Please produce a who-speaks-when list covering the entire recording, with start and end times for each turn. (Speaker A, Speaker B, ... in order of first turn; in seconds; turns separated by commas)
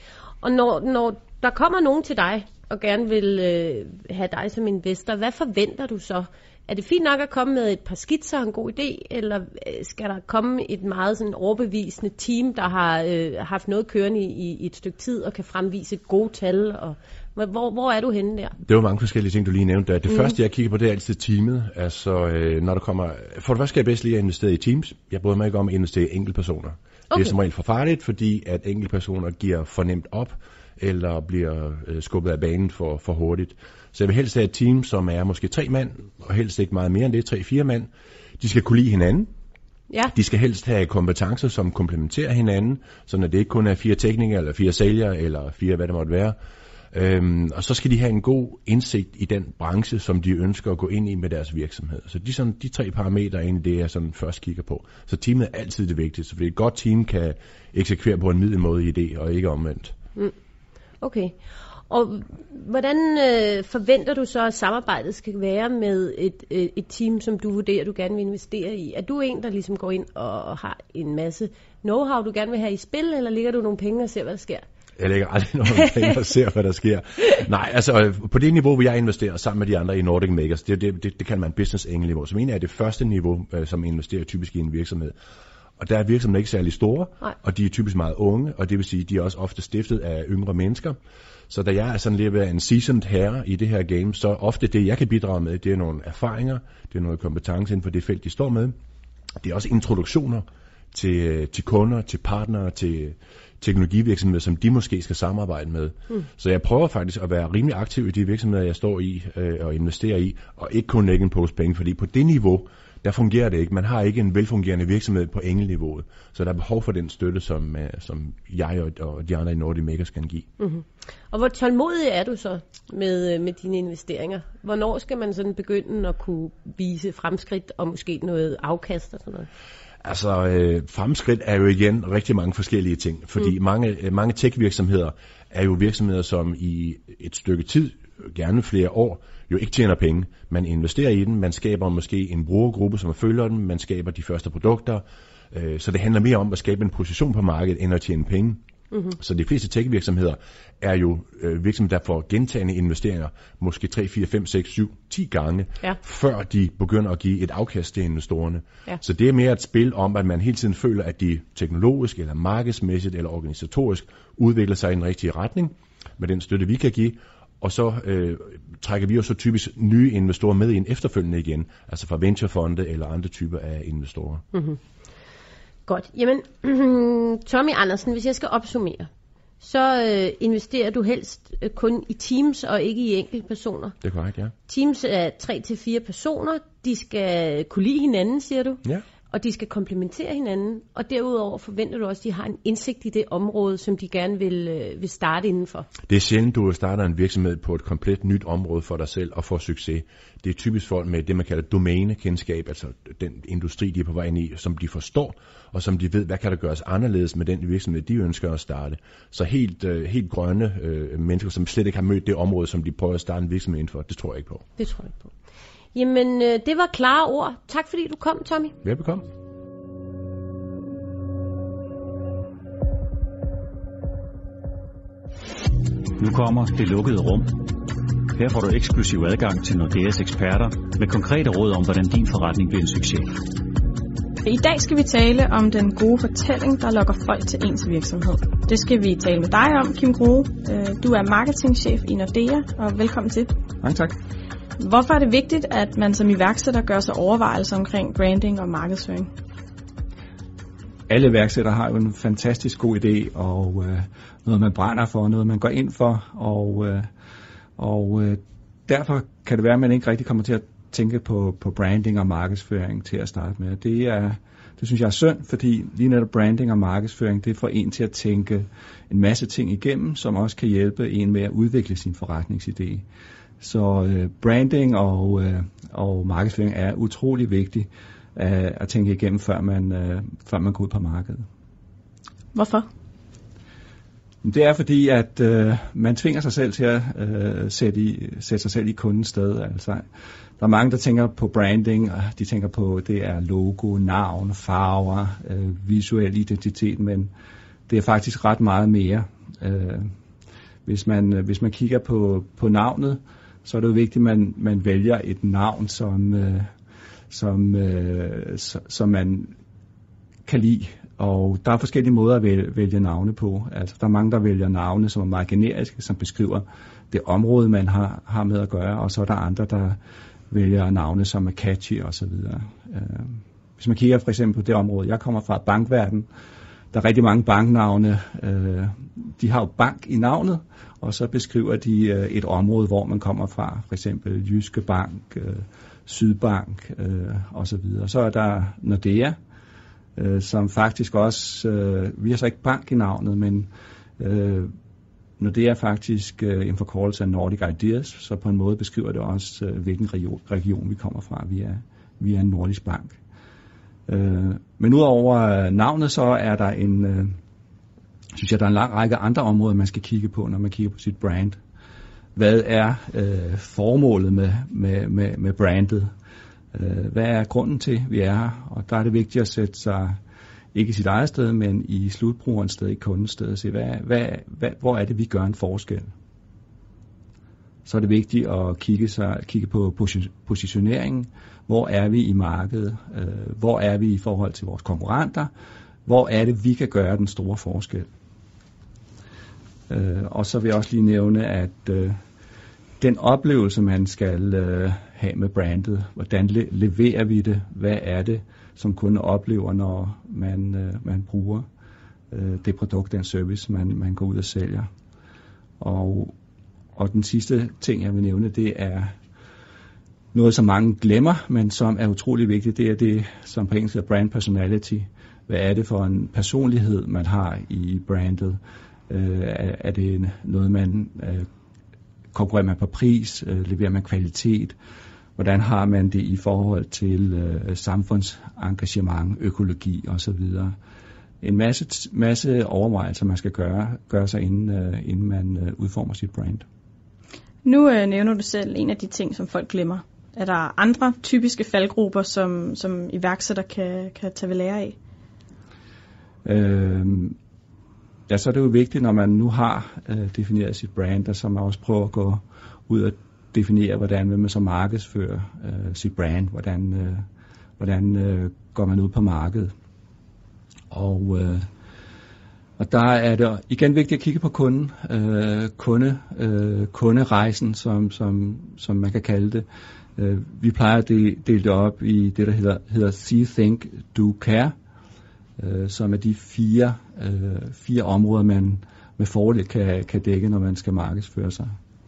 Speaker A: 0.4-18.6, Speaker B: 18.6-39.3, Speaker B: 40.1-46.4, Speaker B: 46.9-59.9, Speaker A: 61.0-61.4, Speaker A: 61.9-74.6, Speaker B: 75.0-85.2, Speaker B: 85.8-91.0, Speaker B: 91.5-98.8, Speaker B: 99.4-120.5, Speaker A: 120.6-129.5, Speaker B: 130.0-148.6, Speaker B: 149.2-174.4, Speaker A: 174.5-174.8, Speaker A: 175.9-179.1, Speaker A: 179.6-183.9, Speaker B: 184.0-184.5, Speaker A: 184.7-188.8, Speaker A: 189.3-195.9, Speaker B: 196.1-214.7, Speaker A: 214.8-215.3, Speaker A: 215.9-218.7, Speaker B: 218.8-219.3, Speaker C: 226.2-227.8, Speaker C: 228.3-233.3, Speaker D: 234.4-243.6, Speaker E: 243.8-244.2, Speaker D: 244.8-249.3, Speaker E: 251.1-257.1, Speaker E: 257.8-273.1, Speaker E: 273.6-281.5, Speaker D: 282.5-282.9, Speaker E: 284.4-290.0, Speaker E: 290.6-297.3, Speaker E: 297.9-300.1, Speaker E: 300.9-306.7, Speaker E: 307.3-309.6, Speaker E: 310.5-320.0, Speaker E: 320.5-326.3, Speaker E: 326.9-339.4, Speaker E: 340.2-344.7, Speaker E: 345.4-353.2, Speaker E: 354.1-357.4, Speaker E: 358.4-361.6, Speaker E: 362.4-366.1, Speaker E: 366.7-370.2, Speaker E: 370.7-376.1, Speaker E: 377.9-385.5, Speaker E: 386.1-388.1, Speaker E: 389.9-392.2, Speaker E: 393.0-401.7, Speaker E: 402.3-404.9, Speaker E: 405.8-406.3, Speaker E: 407.0-409.2, Speaker E: 410.3-421.5, Speaker E: 422.3-424.8, Speaker E: 425.4-430.8, Speaker E: 431.4-436.6, Speaker D: 437.6-445.0, Speaker E: 446.4-447.4, Speaker E: 448.3-457.3, Speaker E: 457.8-459.7, Speaker E: 460.9-461.7, Speaker E: 462.8-469.7, Speaker E: 470.2-474.7, Speaker E: 475.6-481.8